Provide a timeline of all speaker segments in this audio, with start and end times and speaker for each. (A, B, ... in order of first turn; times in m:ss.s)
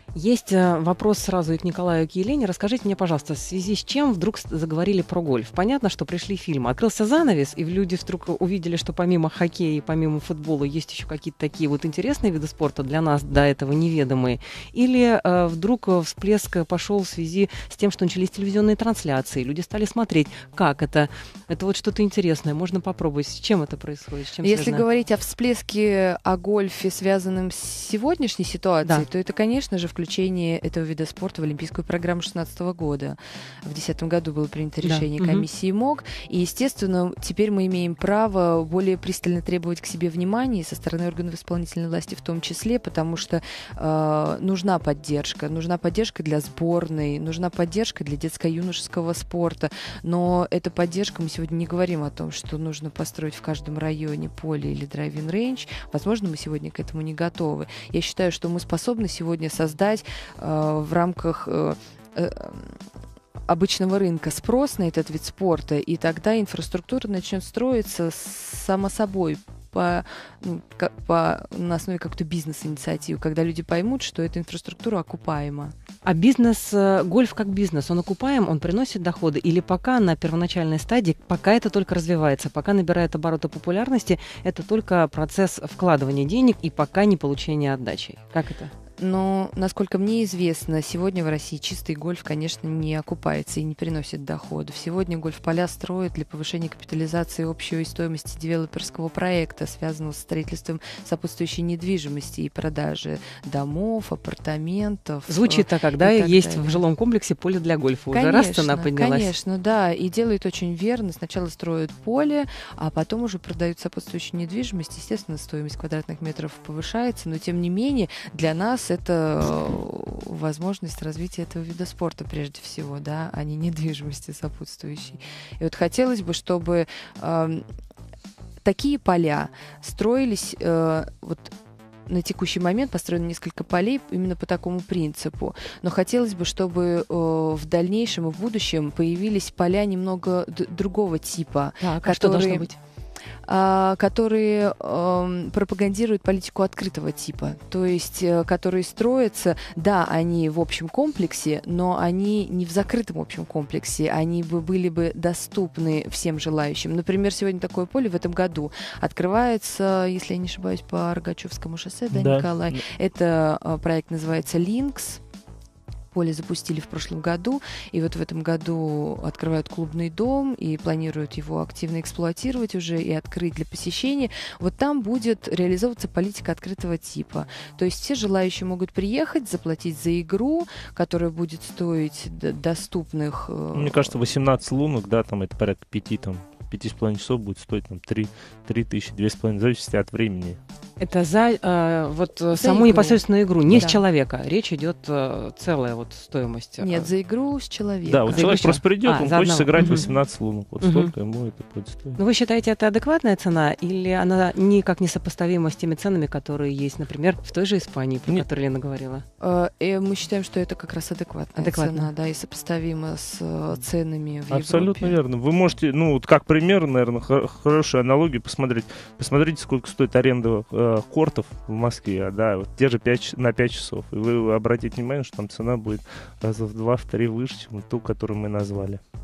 0:00.2-0:24.8 A
0:24.4-1:02.8 B
0:34.8-0:35.4 A
1:03.5-1:15.7 B
1:16.0-1:28.7 A
1:29.0-1:46.8 B
1:45.3-1:49.3 A
1:48.1-2:07.6 B
2:08.6-2:11.5 B
2:12.1-2:22.7 B
2:21.8-2:22.8 A
2:23.5-2:45.2 B
2:42.1-2:42.8 C
2:46.1-3:04.2 B
3:03.8-3:10.6 C
3:11.0-3:17.1 A
3:12.6-3:13.2 B
3:16.8-3:18.6 B
3:18.1-3:22.2 C
3:18.3-3:20.1 A
3:20.8-3:21.1 A
3:22.2-3:29.2 A
3:29.4-3:35.2 B
3:31.6-3:32.1 A
3:34.5-3:49.0 C